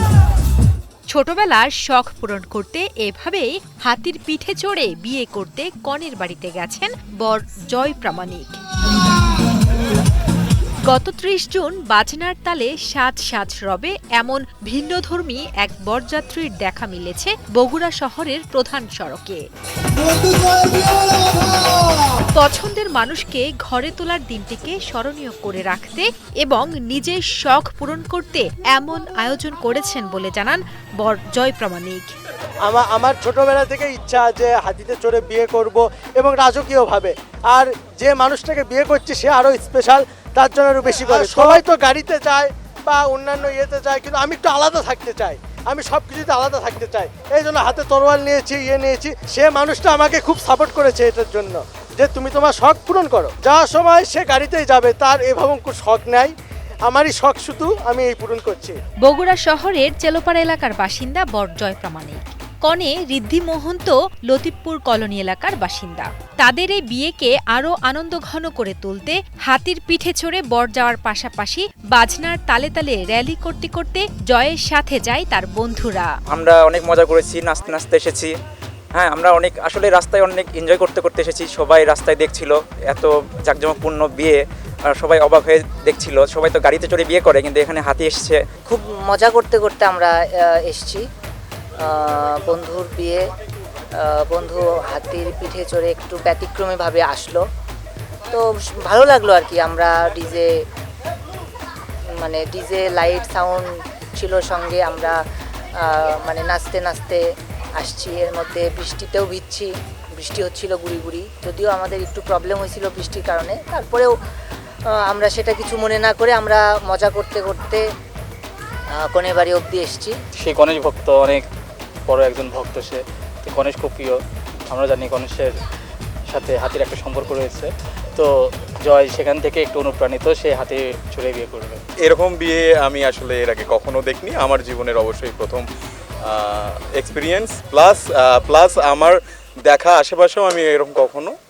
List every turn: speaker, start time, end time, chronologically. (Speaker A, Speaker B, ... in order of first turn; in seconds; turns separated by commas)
Speaker A: 1.1-8.6, Speaker A: 10.9-19.4, Speaker A: 22.3-32.1, Speaker B: 32.6-56.3, Speaker B: 56.9-58.8, Speaker A: 59.0-76.1, Speaker C: 76.3-78.3, Speaker C: 79.0-84.4, Speaker C: 85.0-88.4, Speaker D: 88.7-91.0, Speaker D: 91.8-93.2, Speaker D: 94.0-97.4, Speaker D: 98.3-100.5, Speaker D: 102.2-105.1, Speaker D: 105.8-107.2, Speaker D: 107.8-114.1, Speaker D: 114.9-117.8, Speaker D: 118.9-120.2, Speaker E: 120.4-121.5, Speaker E: 122.1-124.2, Speaker E: 124.7-125.6, Speaker E: 126.3-131.8, Speaker F: 132.0-135.6, Speaker F: 137.0-139.2, Speaker F: 139.7-141.3